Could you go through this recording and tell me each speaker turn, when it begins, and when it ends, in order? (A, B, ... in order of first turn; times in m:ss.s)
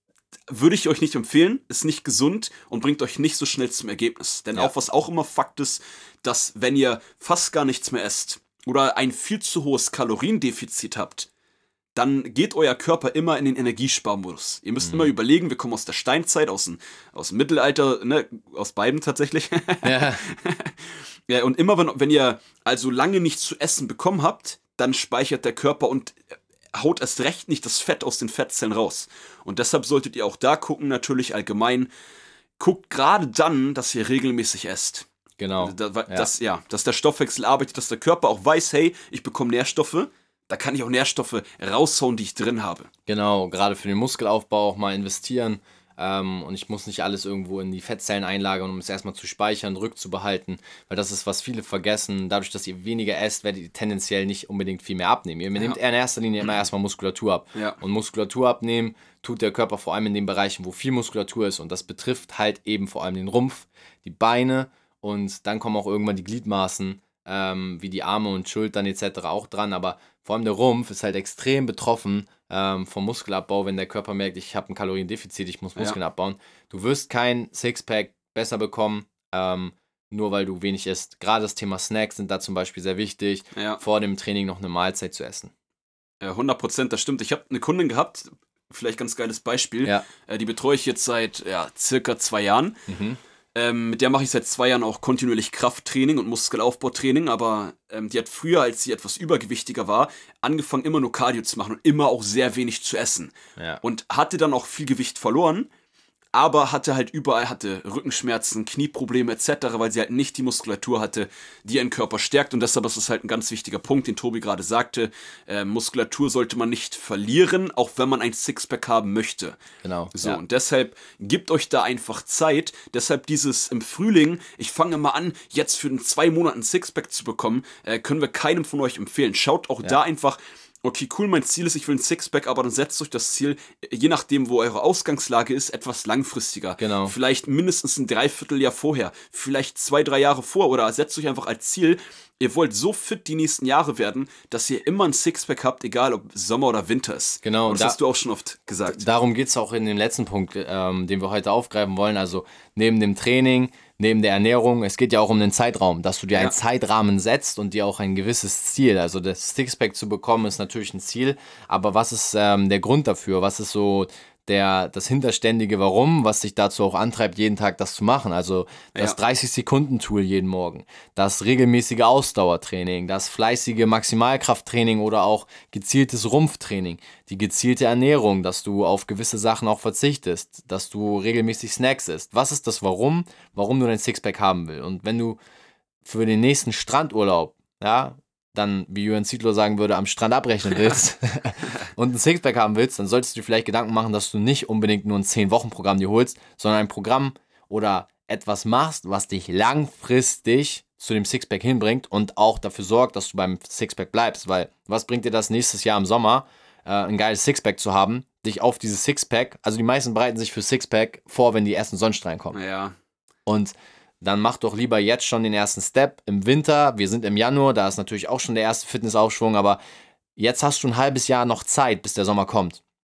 0:00.5-0:11.3 A
0:12.0-0:26.2 A
0:14.8-0:15.1 B
0:19.8-0:20.2 B
0:26.8-0:31.9 A
0:32.6-0:35.1 A
0:35.4-0:36.3 B
0:35.6-0:42.9 A
0:43.1-1:25.5 B
0:57.6-0:57.8 A
1:23.6-1:23.8 A
1:26.2-1:32.8 A
1:32.9-1:33.2 B
1:33.6-1:45.7 A
1:43.6-1:43.8 B
1:46.4-1:59.6 A
1:59.8-2:00.4 B
2:00.1-2:29.0 A
2:16.8-2:17.2 B
2:27.4-2:28.0 B
2:28.9-3:05.4 B
3:06.0-3:32.6 B
3:32.5-3:33.0 A
3:33.5-3:39.8 B
3:40.4-3:42.8 B